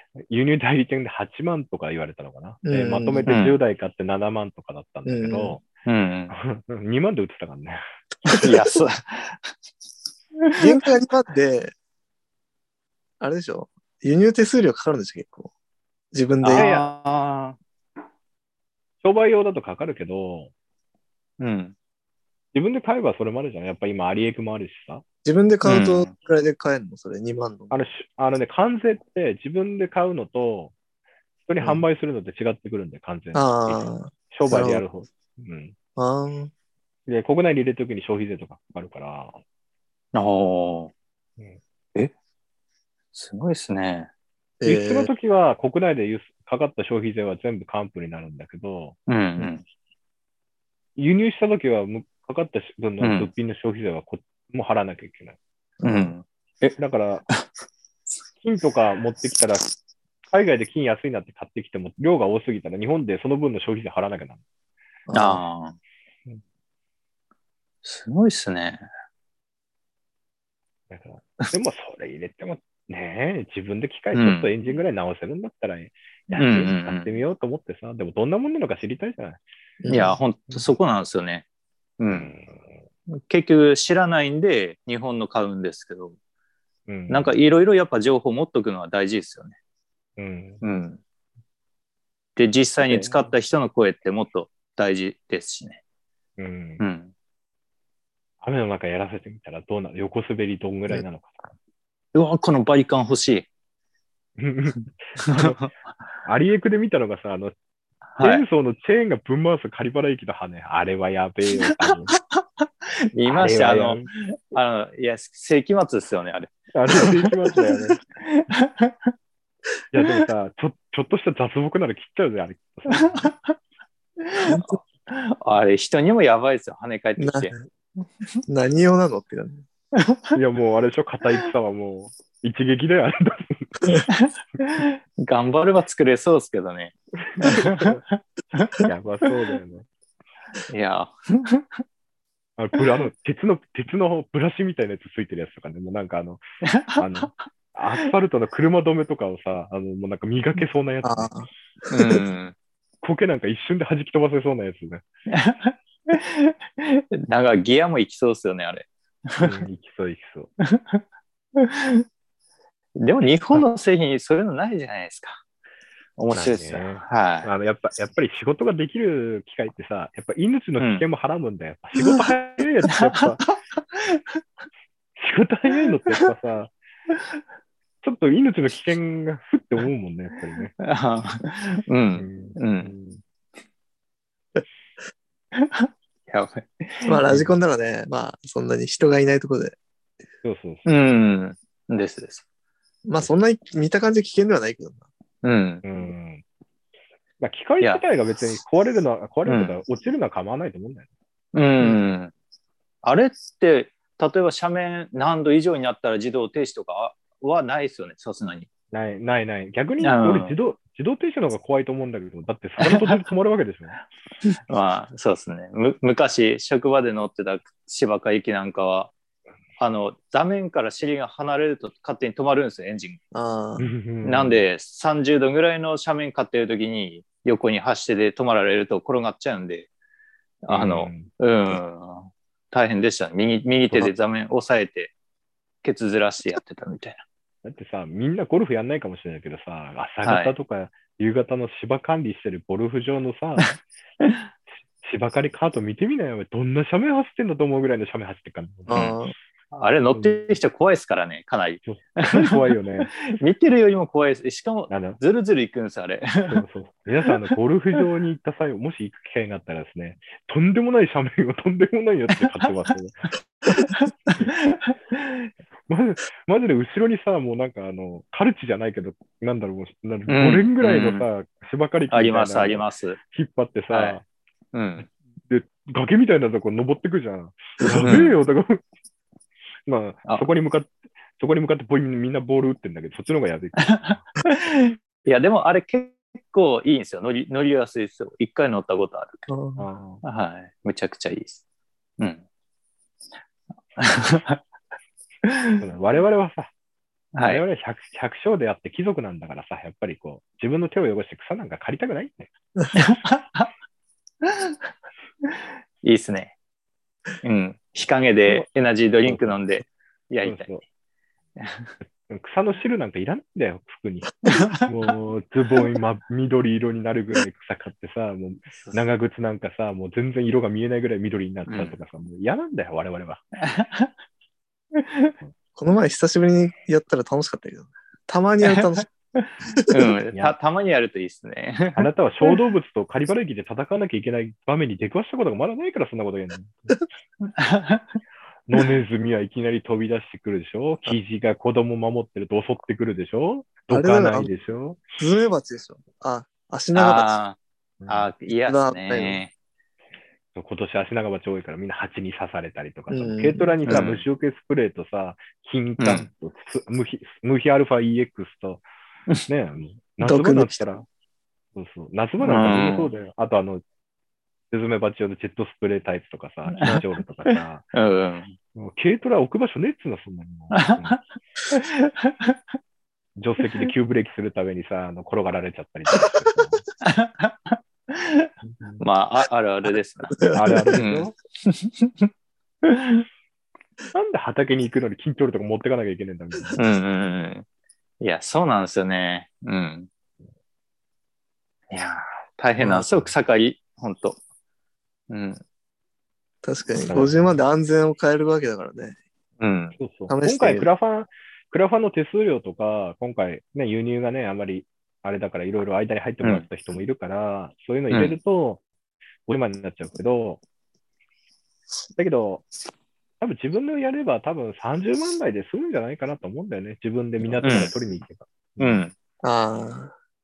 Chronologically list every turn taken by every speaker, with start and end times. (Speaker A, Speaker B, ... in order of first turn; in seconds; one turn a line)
Speaker A: 0.2-5.6
Speaker B: 2.6-3.3
Speaker C: 3.3-3.6
Speaker B: 5.0-5.6
Speaker C: 5.8-6.3
Speaker A: 6.3-7.8
Speaker C: 8.2-9.5
Speaker C: 10.4-10.8
Speaker B: 10.6-11.7
Speaker B: 13.2-15.5
Speaker B: 16.1-16.7
Speaker C: 16.4-17.6
Speaker A: 16.5-16.8
Speaker A: 19.0-20.5
Speaker C: 21.4-21.7
Speaker A: 22.5-25.0
Speaker B: 25.2-27.7
Speaker C: 25.6-26.1
Speaker A: 27.7-30.7
Speaker A: 31.4-35.7
Speaker B: 33.3-34.8
Speaker B: 36.0-36.5
Speaker A: 37.1-39.4
Speaker C: 40.1-40.9
Speaker C: 43.1-44.1
Speaker B: 44.6-45.1
Speaker A: 44.6-49.0
Speaker C: 49.1-49.6
Speaker A: 51.0-55.4
Speaker C: 53.0-53.3
Speaker B: 55.8-56.1
Speaker C: 55.8-56.8
Speaker A: 56.8-57.2
Speaker A: 58.4-59.6
Speaker A: 60.2-64.4
Speaker B: 65.1-65.4
Speaker C: 65.1-65.8
Speaker C: 67.8-68.8
Speaker A: 70.9-79.4
Speaker C: 74.1-74.5
Speaker C: 76.3-77.1
Speaker B: 79.8-80.2
Speaker C: 79.9-81.4
Speaker C: 82.0-82.3
Speaker A: 82.1-82.5
Speaker C: 83.1-86.1
Speaker A: 86.9-87.3
Speaker C: 87.1-89.6
Speaker A: 90.2-90.6
Speaker C: 90.6-91.0
Speaker C: 92.3-95.8
Speaker A: 92.8-93.3
Speaker A: 96.4-96.8
Speaker C: 96.8-97.1
Speaker A: 98.4-101.5
Speaker C: 102.1-103.5
Speaker A: 104.4-105.6
Speaker C: 105.2-105.7
Speaker A: 106.2-107.5
Speaker C: 108.1-108.4
Speaker A: 108.2-112.1
Speaker C: 112.1-117.3
Speaker A: 113.3-114.1
Speaker A: 116.7-118.0
Speaker C: 118.2-119.1
Speaker A: 119.9-123.3
Speaker C: 122.9-123.5
Speaker C: 124.2-127.5
Speaker B: 127.2-127.6
Speaker B: 128.4-129.6
Speaker C: 129.9-130.3
Speaker A: 130.3-134.0
Speaker C: 134.1-138.9
Speaker A: 137.4-138.0
Speaker A: 138.8-139.8
Speaker C: 140.7-141.7
Speaker A: 142.6-146.4
Speaker C: 146.6-147.4
Speaker A: 146.9-151.3
Speaker B: 151.0-152.2
Speaker C: 151.9-152.5
Speaker A: 153.0-155.0
Speaker C: 155.3-159.6
Speaker A: 159.4-160.5
Speaker C: 160.7-161.0
Speaker C: 161.6-162.0
Speaker C: 163.0-165.4
Speaker C: 166.2-167.5
Speaker A: 166.3-173.4
Speaker C: 170.8-171.0
Speaker C: 172.0-172.3
Speaker C: 173.0-174.4
Speaker A: 175.2-176.7
Speaker A: 178.0-180.7
Speaker C: 180.8-182.9
Speaker A: 182.2-183.2
Speaker C: 185.5-187.2
Speaker B: 187.1-189.8
Speaker A: 187.3-187.5
Speaker A: 190.4-190.8
Speaker C: 190.8-192.4
Speaker B: 193.0-195.0
Speaker C: 195.4-195.8
Speaker A: 195.8-196.4
Speaker A: 197.4-201.1
Speaker C: 199.4-199.8
Speaker C: 201.5-202.3
Speaker C: 203.0-208.7
Speaker A: 208.9-214.0
Speaker C: 210.0-210.6
Speaker C: 212.8-213.2
Speaker C: 214.7-219.1
Speaker C: 219.8-223.2
Speaker B: 223.3-223.9
Speaker A: 223.8-224.6
Speaker C: 224.2-229.9
Speaker C: 230.6-235.1
Speaker A: 230.7-231.3
Speaker C: 235.8-237.2
Speaker A: 237.6-243.8
Speaker C: 240.2-240.5
Speaker C: 243.6-244.4
Speaker A: 245.0-249.1
Speaker B: 248.9-249.3
Speaker C: 248.9-249.2
Speaker C: 249.7-256.6
Speaker A: 250.1-250.5
Speaker A: 251.9-253.1
Speaker A: 254.9-255.2
Speaker A: 256.5-263.2
Speaker C: 262.4-262.7
Speaker C: 263.7-265.5
Speaker A: 265.9-274.2
Speaker C: 270.3-271.2
Speaker C: 272.1-273.2
Speaker C: 273.9-274.2
Speaker C: 274.7-275.1
Speaker A: 275.4-278.8
Speaker C: 277.8-278.3
Speaker A: 279.9-284.3
Speaker C: 283.8-289.5
Speaker B: 289.5-289.9
Speaker A: 289.8-290.2
Speaker C: 290.2-291.6
Speaker C: 292.2-292.4
Speaker C: 294.0-294.6
Speaker C: 295.4-295.8
Speaker A: 295.8-296.7
Speaker C: 297.3-297.6
Speaker A: 297.4-302.5
Speaker C: 302.9-303.7
Speaker C: 304.4-304.8
Speaker C: 306.0-306.5
Speaker C: 307.4-310.7
Speaker A: 309.2-309.6
Speaker A: 310.4-310.8
Speaker C: 311.6-311.9
Speaker A: 312.2-323.4
Speaker C: 314.4-314.9
Speaker C: 321.7-321.9
Speaker C: 323.6-324.1
Speaker C: 324.9-325.3
Speaker B: 325.8-329.1
Speaker C: 328.6-332.1
Speaker B: 329.8-330.1
Speaker A: 331.9-336.9
Speaker C: 337.4-338.2
Speaker A: 338.7-345.0
Speaker B: 343.9-344.5
Speaker B: 345.2-347.3
Speaker C: 346.9-349.5
Speaker A: 348.0-348.3
Speaker B: 348.7-349.4
Speaker A: 350.5-358.8
Speaker B: 353.1-354.1
Speaker C: 353.9-354.2
Speaker C: 356.0-356.3
Speaker A: 359.5-361.0
Speaker B: 360.2-360.8
Speaker A: 361.7-363.8
Speaker C: 362.4-363.1
Speaker A: 364.7-367.9
Speaker C: 366.7-368.6
Speaker A: 368.7-371.2
Speaker C: 370.7-371.2
Speaker C: 371.7-372.5
Speaker A: 373.4-376.8
Speaker C: 377.0-382.3
Speaker A: 378.6-379.0
Speaker B: 380.4-381.0
Speaker A: 380.5-381.3
Speaker C: 382.8-383.2
Speaker A: 384.1-386.8
Speaker C: 386.8-387.6
Speaker C: 388.2-390.1
Speaker C: 391.9-394.4
Speaker B: 392.8-393.0
Speaker C: 395.3-395.6
Speaker B: 396.6-399.2
Speaker A: 397.1-397.6
Speaker C: 399.6-399.9
Speaker A: 400.0-408.8
Speaker B: 400.3-400.9
Speaker C: 408.1-408.4
Speaker A: 409.4-410.6
Speaker A: 412.1-412.7
Speaker A: 413.4-419.0
Speaker C: 417.6-417.9
Speaker C: 418.8-419.1
Speaker B: 419.4-420.1